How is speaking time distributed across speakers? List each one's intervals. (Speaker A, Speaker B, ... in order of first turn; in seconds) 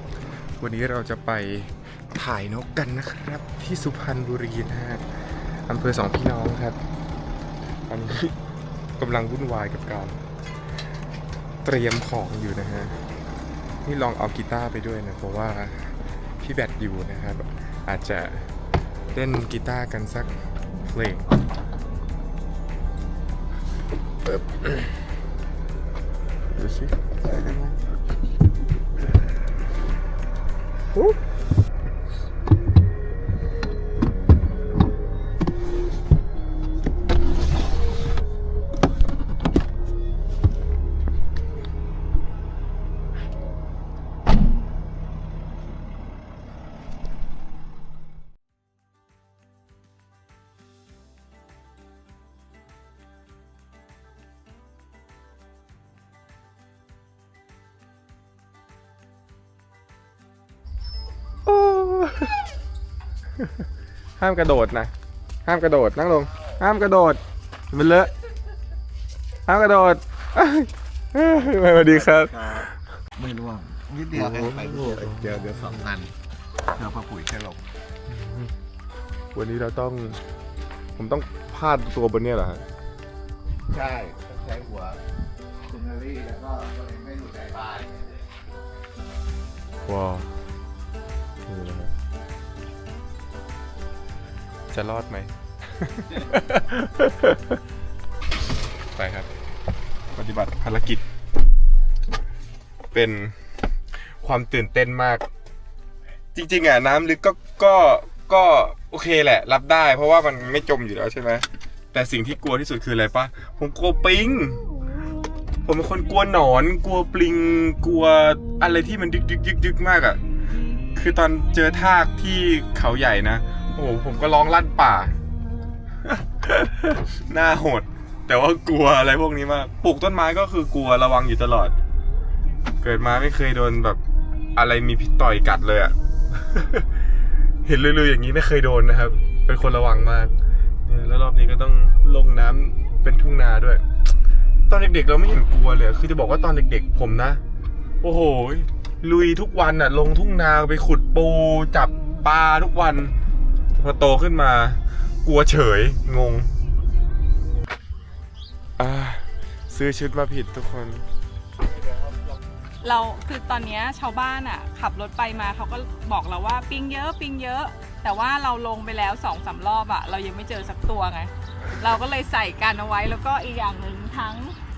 Speaker A: 0.6-6.8, 7.9-8.3, 9.0-10.2, 11.6-13.0, 13.8-18.5, 19.1-20.3, 20.8-21.3, 24.3-24.9, 26.5-27.8, 61.5-62.4, 64.2-64.9, 65.4-68.1, 69.5-72.8, 74.1-75.9, 78.1-78.5, 79.3-80.2, 81.0-82.6, 89.8-90.4, 91.5-91.9, 94.7-97.6, 98.9-99.3, 100.1-101.0, 102.9-105.2, 106.3-114.7, 115.6-120.2, 120.9-125.2, 126.0-131.7, 132.8-134.0, 134.5-136.9, 137.6-140.3, 140.8-143.8, 144.7-147.4, 148.0-153.1, 153.8-156.5, 158.8-161.1
Speaker B: 71.8-72.6, 73.2-76.1, 76.7-77.6, 83.7-85.0, 85.6-88.4
Speaker C: 162.8-174.6